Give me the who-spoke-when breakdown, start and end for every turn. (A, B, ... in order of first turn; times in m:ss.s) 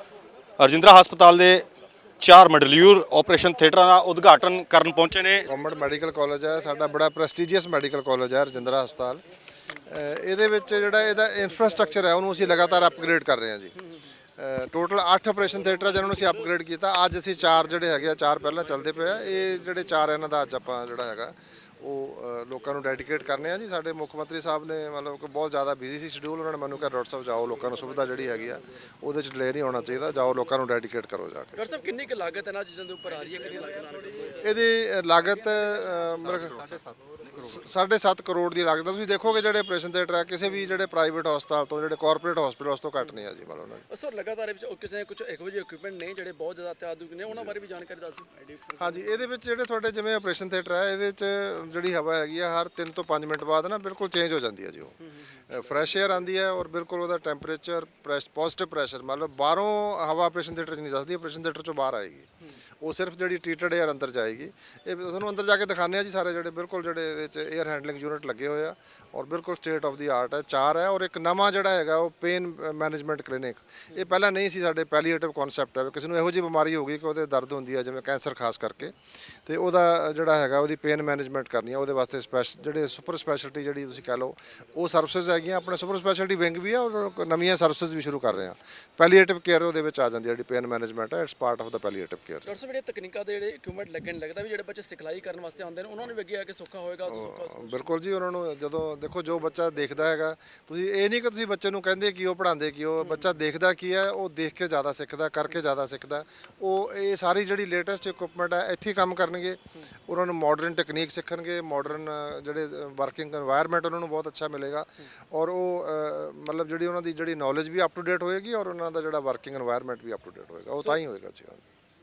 0:00.6-0:01.6 A
0:02.2-0:05.5 A
0:05.5-0:09.2 B
0:09.8-0:13.7 B
0:14.4-0:31.6 B
0:31.6-0:34.4 C
0:34.4-0:43.8 B
0:43.9-0:48.8 C
0:48.8-0:55.0 B
0:55.5-1:02.3 B
1:02.8-1:18.9 B
1:19.4-1:32.5 B
1:32.4-1:37.9 C
1:37.1-2:01.6 B